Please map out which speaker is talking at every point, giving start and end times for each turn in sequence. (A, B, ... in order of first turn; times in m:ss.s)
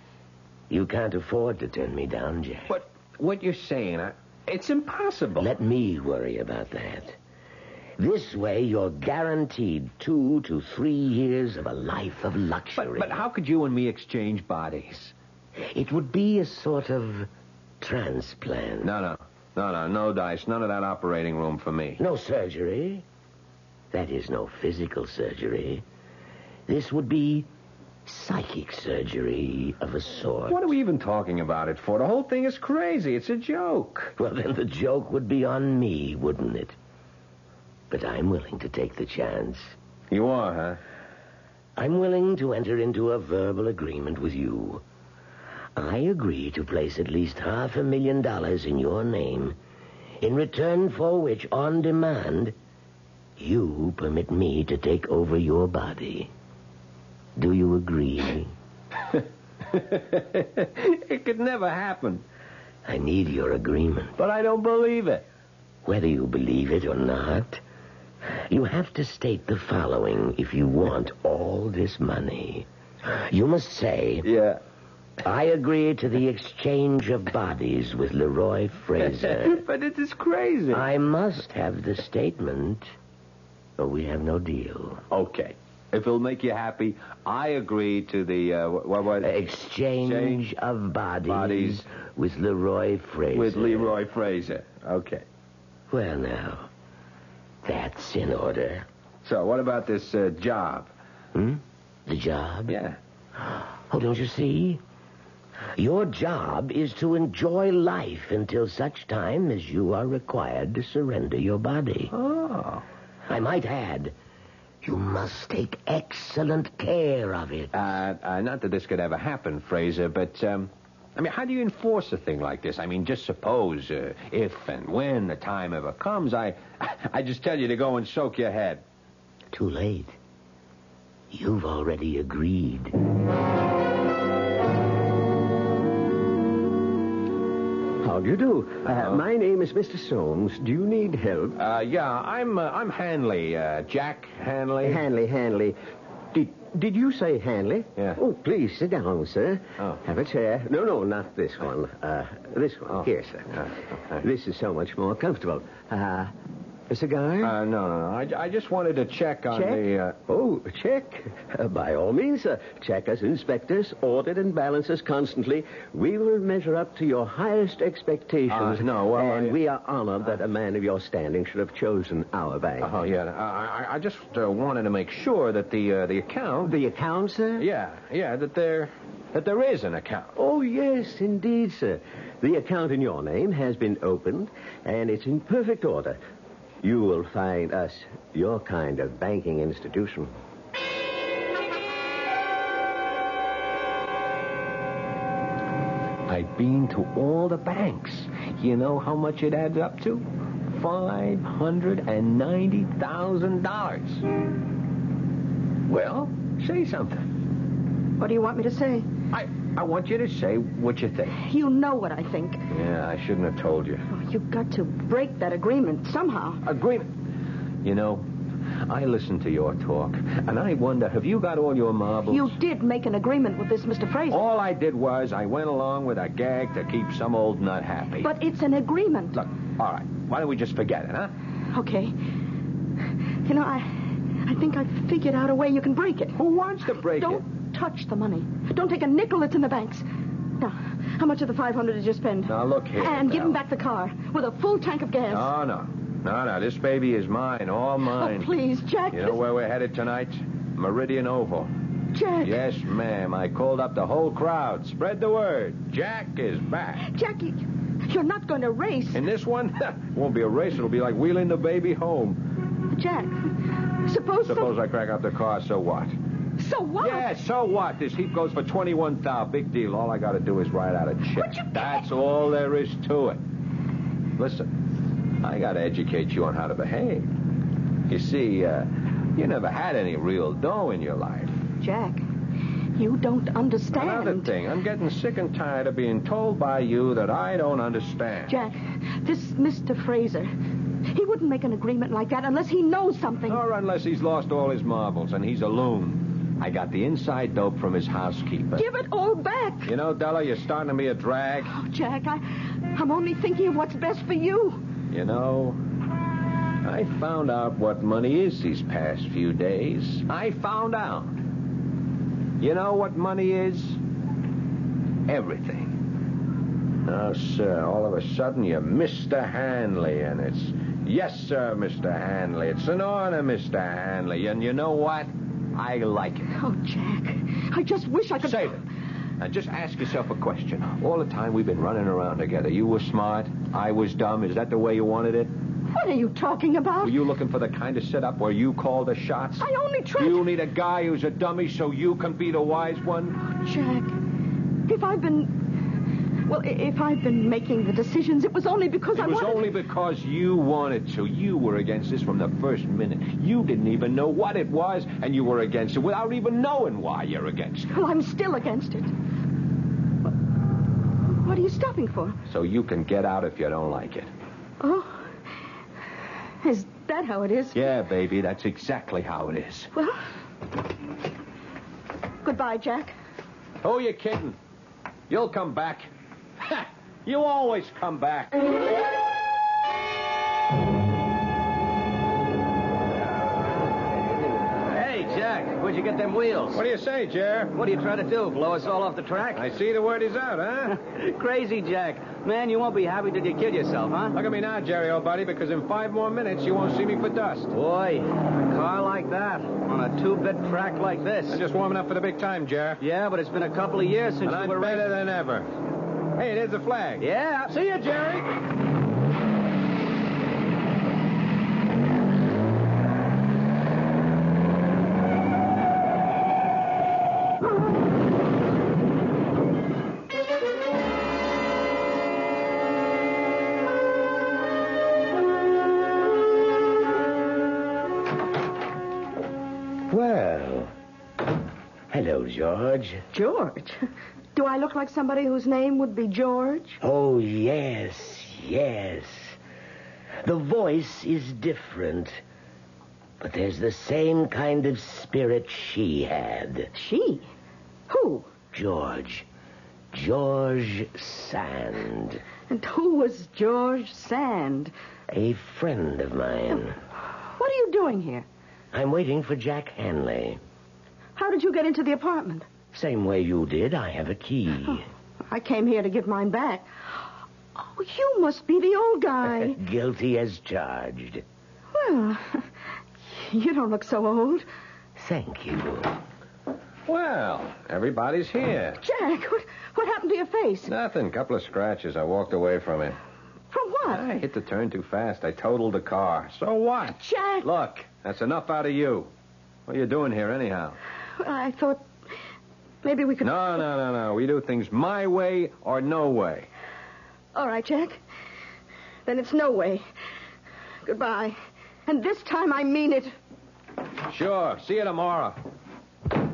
0:00.7-0:02.7 A
0:02.7-0:05.5 B
0:05.4-0:07.2 A
0:08.0-0:13.2 A
0:12.8-0:15.1 B
0:15.6-0:17.3 A
0:17.8-0:18.9 A
0:18.8-0:22.0 B
0:22.0-0:23.0 A
0:23.9-0:25.8 A
0:26.7-0:27.5 A
0:28.0-0:30.7 A
0:30.5-0:34.1 B
0:34.2-0:36.7 A
0:37.9-0:39.7 A
0:40.1-0:40.8 B
0:41.8-0:44.8 A
0:45.8-0:49.6 A
0:50.2-0:52.5 A
0:53.4-0:56.3 A
0:57.4-0:58.5 A
0:59.7-1:02.2 B
1:02.8-1:04.2 A
1:04.2-1:05.2 B
1:05.8-1:07.6 A
1:08.4-1:14.3 A
1:14.2-1:14.6 B
1:15.2-1:19.6 A
1:19.4-1:20.9 B
1:20.7-1:22.9 A
1:23.8-1:25.0 A
1:25.1-1:29.3 B
1:29.2-1:34.0 A
1:30.0-1:30.5 B
1:31.2-1:31.8 B
1:33.3-1:35.2 B
1:35.9-1:36.7 A
1:37.6-1:38.8 A
1:39.2-1:40.9 B
1:41.3-1:42.8 A
1:42.7-1:43.0 B
1:43.4-1:44.8 A
1:45.7-1:52.1 A
1:52.1-1:52.8 B
1:53.3-1:54.1 A
1:54.8-1:57.8 A
1:57.7-2:08.8 B
2:09.5-2:10.2 A
2:11.3-2:12.9 A
2:18.0-2:21.6 C
2:18.8-2:19.2 B
2:21.6-2:25.0 B
2:24.8-2:25.8 C
2:26.3-2:33.6 C
2:28.0-2:28.2 B
2:32.8-2:34.2 B
2:34.2-2:36.3 C
2:36.9-2:37.6 C
2:37.4-2:40.2 B
2:40.2-2:53.0 C
2:48.5-2:49.6 B
2:52.8-2:56.8 B
2:56.6-2:57.6 C
2:57.6-3:00.4 B
3:00.4-3:06.2 C
3:06.8-3:10.3 C
3:16.3-3:24.2 B
3:25.9-3:27.2 B
3:28.2-3:29.1 D
3:29.3-3:31.4 B
3:31.4-3:32.6 D
3:32.7-3:34.0 B
3:34.1-3:36.6 D
3:36.6-3:37.0 B
3:37.8-3:38.2 B
3:38.8-3:42.5 B
3:42.3-3:44.4 D
3:44.3-3:48.3 B
3:48.2-3:49.4 D
3:49.3-3:51.3 B
3:51.7-3:52.1 D
3:53.4-3:56.4 D
3:56.4-3:57.4 B
3:56.9-4:00.0 D
4:00.6-4:05.5 D
4:02.4-4:03.6 B
4:05.3-4:08.5 B
4:08.0-4:09.4 D
4:09.1-4:11.7 B
4:12.1-4:12.6 D
4:12.4-4:17.0 B
4:17.0-4:19.2 D
4:19.1-4:22.4 B
4:22.9-4:23.5 D
4:24.0-4:24.7 D
4:24.4-4:26.1 B
4:26.6-4:27.3 D
4:27.0-4:33.4 B
4:31.3-4:32.0 D
4:34.4-4:34.7 B
4:35.4-4:37.3 B
4:38.1-4:41.6 B
4:41.8-4:42.2 D
4:43.0-4:44.5 D
4:43.9-4:48.6 B
4:48.5-4:50.5 D
4:51.1-4:53.6 D
4:53.5-4:58.8 B
4:58.8-4:59.9 D
4:59.8-5:01.7 B
5:01.6-5:04.8 D
5:05.1-5:05.8 B
5:06.8-5:11.3 B
5:12.6-5:14.0 B
5:15.3-5:15.9 B
5:17.1-5:26.5 B
5:26.5-5:28.8 D
5:28.4-5:28.8 B
5:29.4-5:35.5 B
5:35.9-5:37.2 D
5:37.0-5:43.4 B
5:39.6-5:40.5 D
5:43.5-5:44.1 D
5:44.8-5:45.5 D
5:46.5-5:49.7 D
5:49.1-5:57.9 B
5:57.9-5:59.1 D
6:01.3-6:02.4 D
6:02.5-6:04.3 B
6:04.8-6:05.4 D
6:06.6-6:07.8 D
6:07.7-6:09.9 B
6:09.9-6:10.2 D
6:12.4-6:13.1 D
6:13.8-6:14.5 B
6:15.3-6:16.1 B
6:16.6-6:18.6 B
6:24.9-6:26.8 E
6:26.7-6:27.8 B
6:27.7-6:29.7 E
6:29.5-6:31.0 B
6:30.9-6:34.4 E
6:34.3-6:37.7 B
6:37.7-6:41.6 E
6:41.5-6:43.0 B
6:43.0-6:45.1 E
6:44.4-6:45.7 B
6:46.4-6:48.5 B
6:47.2-6:47.8 E
7:10.1-7:10.9 A
7:12.1-7:13.2 A
7:13.3-7:14.0 D
7:14.5-7:17.0 D
7:17.0-7:19.6 A
7:20.4-7:22.4 A
7:23.4-7:26.9 A
7:26.9-7:27.5 D
7:28.1-7:28.5 D
7:28.7-7:29.4 A
7:30.1-7:32.4 A
7:32.7-7:34.9 D
7:35.3-7:37.0 A
7:37.4-7:38.4 D
7:38.9-7:40.6 A
7:41.4-7:42.7 D
7:42.9-7:45.0 A
7:45.5-7:49.8 D
7:49.6-7:51.4 A
7:51.9-7:52.7 D
7:53.2-7:54.6 D
7:55.2-7:56.2 A
7:57.1-7:59.0 B
7:59.0-8:00.9 D
8:00.8-8:03.2 B
8:03.7-8:04.3 D
8:04.1-8:09.3 B
8:07.0-8:07.7 D
8:09.9-8:11.0 B
8:11.4-8:12.0 D
8:13.0-8:13.9 D
8:13.4-8:16.7 B
8:17.5-8:18.2 D
8:19.2-8:20.0 D
8:21.0-8:21.6 D
8:22.1-8:23.3 D
8:24.3-8:25.6 B